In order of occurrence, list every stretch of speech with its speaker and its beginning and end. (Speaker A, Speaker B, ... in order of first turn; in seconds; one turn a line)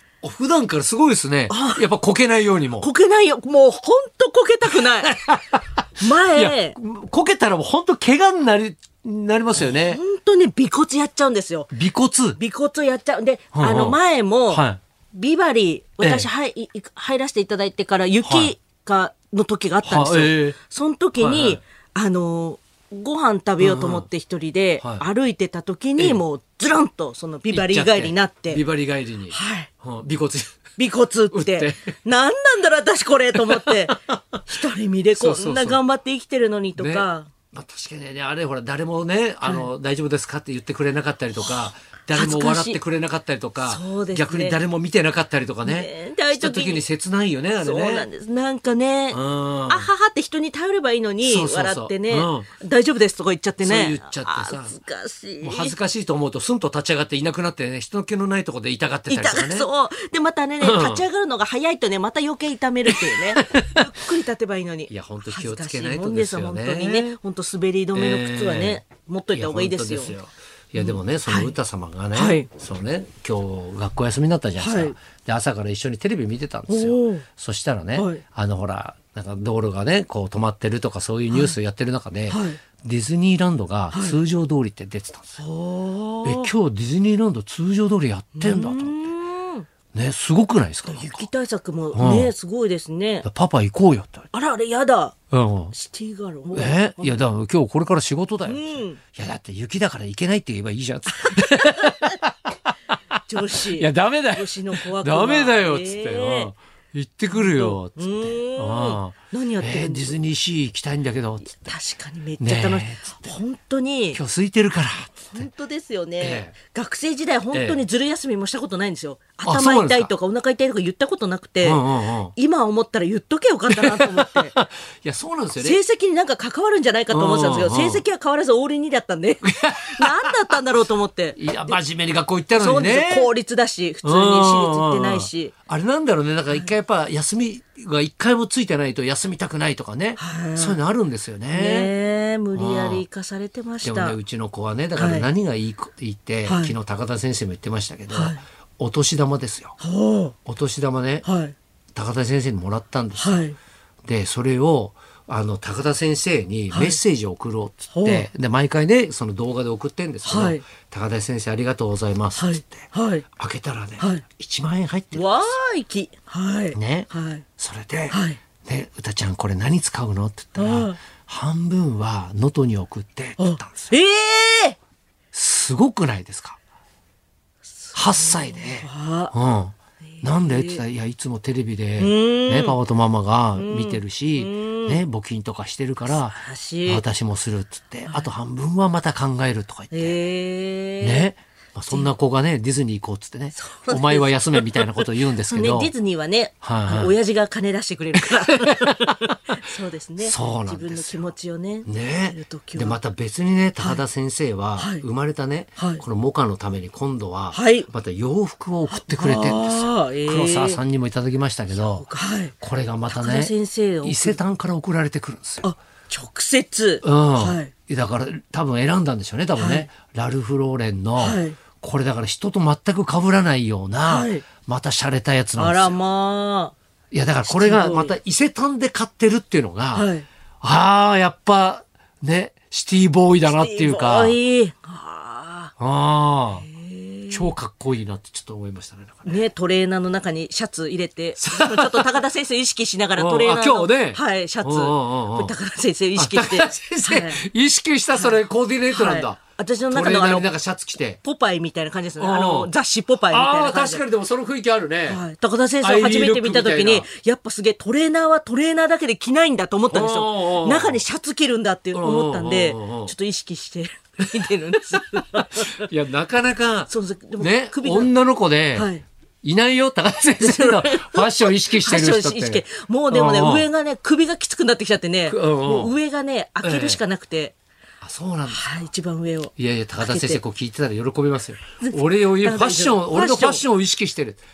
Speaker A: 0.2-2.9
Speaker B: 1.5-1.8
Speaker B: 2.8-5.2
Speaker A: 4.7-10.0
Speaker B: 6.0-6.8
Speaker B: 9.5-11.7
Speaker A: 11.7-12.4
Speaker B: 12.3-28.6
Speaker A: 13.5-14.0
Speaker A: 14.5-14.8
Speaker A: 16.0-16.3
Speaker A: 18.2-18.5
Speaker A: 19.8-20.6
Speaker A: 21.2-21.6
Speaker A: 23.6-24.1
Speaker A: 27.5-30.6
Speaker B: 29.3-29.7
Speaker B: 30.8-37.3
Speaker A: 31.3-31.9
Speaker A: 33.3-34.5
Speaker A: 35.1-35.8
Speaker A: 36.8-48.1
Speaker B: 39.4-39.7
Speaker B: 42.1-42.8
Speaker B: 43.6-44.6
Speaker B: 45.6-46.9
Speaker B: 47.6-55.8
Speaker A: 49.1-49.9
Speaker A: 51.2-52.5
Speaker A: 53.6-54.8
Speaker A: 55.4-59.7
Speaker B: 59.1-70.2
Speaker A: 60.6-61.0
Speaker A: 62.9-63.9
Speaker A: 64.9-67.1
Speaker A: 67.9-68.8
Speaker A: 69.3-85.4
Speaker B: 70.8-71.5
Speaker B: 72.1-72.5
Speaker B: 74.6-74.9
Speaker B: 76.7-77.2
Speaker B: 77.9-78.2
Speaker B: 81.3-81.6
Speaker B: 82.3-82.6
Speaker B: 83.9-84.2
Speaker B: 85.4-86.5
Speaker A: 86.2-89.0
Speaker B: 88.3-89.7
Speaker A: 89.9-91.3
Speaker B: 90.9-93.2
Speaker A: 91.9-92.3
Speaker A: 93.2-94.3
Speaker B: 94.3-95.2
Speaker A: 95.3-95.7
Speaker B: 95.7-97.2
Speaker A: 96.5-111.8
Speaker B: 98.4-99.0
Speaker B: 101.1-102.2
Speaker B: 103.3-106.5
Speaker B: 107.3-110.2
Speaker B: 111.5-114.2
Speaker A: 112.4-113.4
Speaker A: 114.1-115.5
Speaker B: 115.3-124.5
Speaker A: 116.2-116.5
Speaker A: 117.5-117.8
Speaker A: 119.4-120.1
Speaker A: 121.6-122.3
Speaker A: 123.7-125.8
Speaker B: 125.5-131.8
Speaker A: 127.1-128.0
Speaker A: 129.4-130.6
Speaker A: 131.3-133.3
Speaker B: 132.5-135.5
Speaker A: 134.0-141.9
Speaker B: 140.2-140.8
Speaker B: 141.5-144.2
Speaker A: 142.5-143.0
Speaker A: 143.8-149.8
Speaker B: 144.9-145.3
Speaker B: 146.4-146.7
Speaker B: 148.1-148.4
Speaker B: 149.8-150.3
Speaker A: 150.4-151.2
Speaker B: 151.2-151.5
Speaker A: 151.9-153.4
Speaker B: 153.2-153.6
Speaker A: 154.0-165.5
Speaker B: 156.7-157.0
Speaker B: 157.9-158.3
Speaker B: 160.2-160.6
Speaker B: 162.3-163.2
Speaker B: 165.1-167.4
Speaker A: 166.7-173.9
Speaker B: 168.1-168.4
Speaker B: 170.6-171.0
Speaker B: 173.4-174.8
Speaker A: 175.3-176.6
Speaker B: 177.7-179.3
Speaker A: 177.9-190.2
Speaker B: 180.2-180.8
Speaker B: 182.0-182.8
Speaker B: 183.6-185.0
Speaker B: 186.1-187.0
Speaker B: 189.9-191.3
Speaker A: 191.0-195.9
Speaker B: 193.5-203.0
Speaker A: 196.6-197.1
Speaker A: 198.1-199.3
Speaker A: 200.2-201.3
Speaker A: 201.8-215.7
Speaker B: 203.8-204.0
Speaker B: 204.8-205.0
Speaker B: 205.8-206.0
Speaker B: 207.5-207.9
Speaker B: 208.9-210.8
Speaker B: 211.7-212.5
Speaker B: 213.1-214.4
Speaker B: 215.6-217.7
Speaker A: 217.0-226.0
Speaker B: 219.6-219.9
Speaker B: 221.2-221.6
Speaker B: 224.1-224.4
Speaker B: 225.6-226.7
Speaker A: 227.1-230.1
Speaker B: 227.4-228.2
Speaker B: 229.9-230.2
Speaker A: 230.6-234.4
Speaker B: 233.5-235.7
Speaker A: 235.8-236.7
Speaker B: 236.6-237.5
Speaker A: 237.3-239.5
Speaker B: 239.2-247.4
Speaker A: 241.4-242.2
Speaker A: 243.2-245.5
Speaker A: 246.1-251.2
Speaker B: 248.1-250.5
Speaker B: 251.2-254.0
Speaker A: 252.2-252.7
Speaker A: 253.3-255.2
Speaker B: 255.1-265.9
Speaker A: 255.8-257.1
Speaker A: 259.9-261.0
Speaker A: 261.9-263.1
Speaker A: 264.3-268.9
Speaker B: 266.9-268.1
Speaker B: 268.7-269.0
Speaker A: 269.4-273.7
Speaker B: 270.4-277.5
Speaker A: 275.3-275.9
Speaker A: 276.6-277.0
Speaker A: 278.0-278.9
Speaker B: 278.5-280.4
Speaker A: 279.6-284.4
Speaker B: 281.8-283.6